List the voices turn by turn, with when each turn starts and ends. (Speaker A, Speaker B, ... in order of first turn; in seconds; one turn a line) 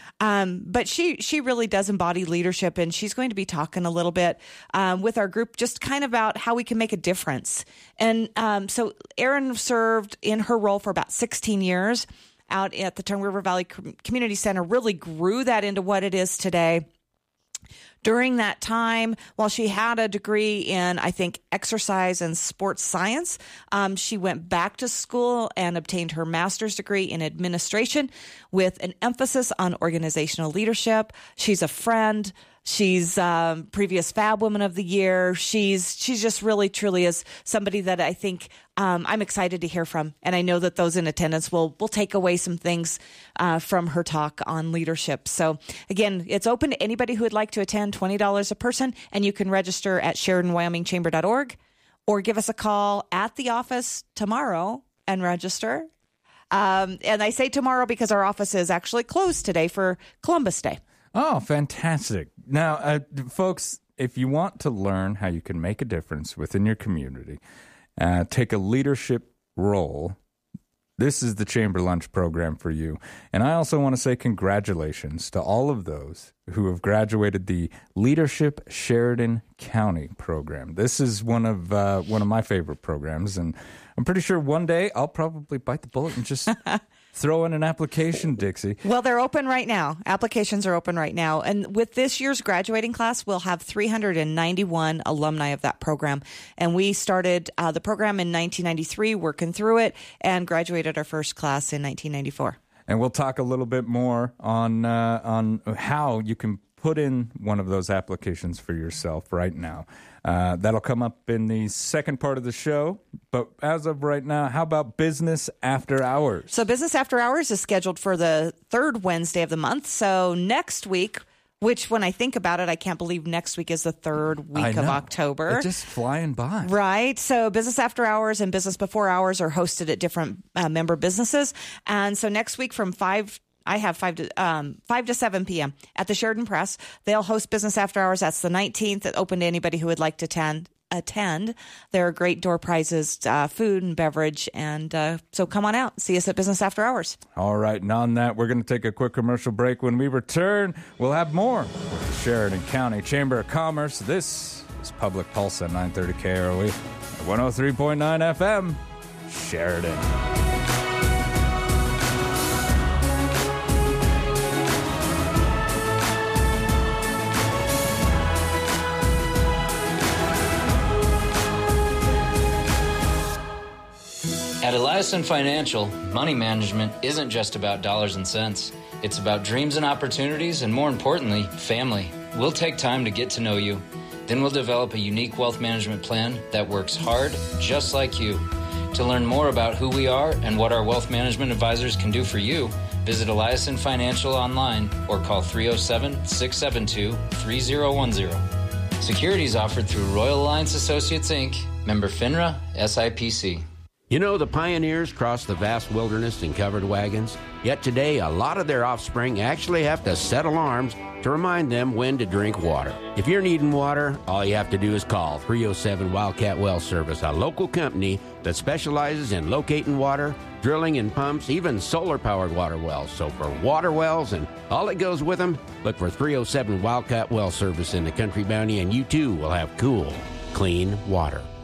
Speaker A: 0.2-16.9
Speaker A: 18.0-51.5
Speaker A: 52.1-55.9
Speaker A: 56.5-60.8
Speaker B: 61.1-67.4
Speaker B: 68.0-70.2
Speaker B: 71.0-86.6
Speaker B: 87.1-88.8
Speaker A: 88.8-102.6
Speaker B: 102.9-116.5
Speaker A: 116.5-125.7
Speaker B: 124.5-126.7
Speaker A: 126.6-147.2
Speaker B: 147.3-160.1
Speaker C: 174.6-198.4
Speaker C: 199.0-203.6
Speaker D: 204.1-231.5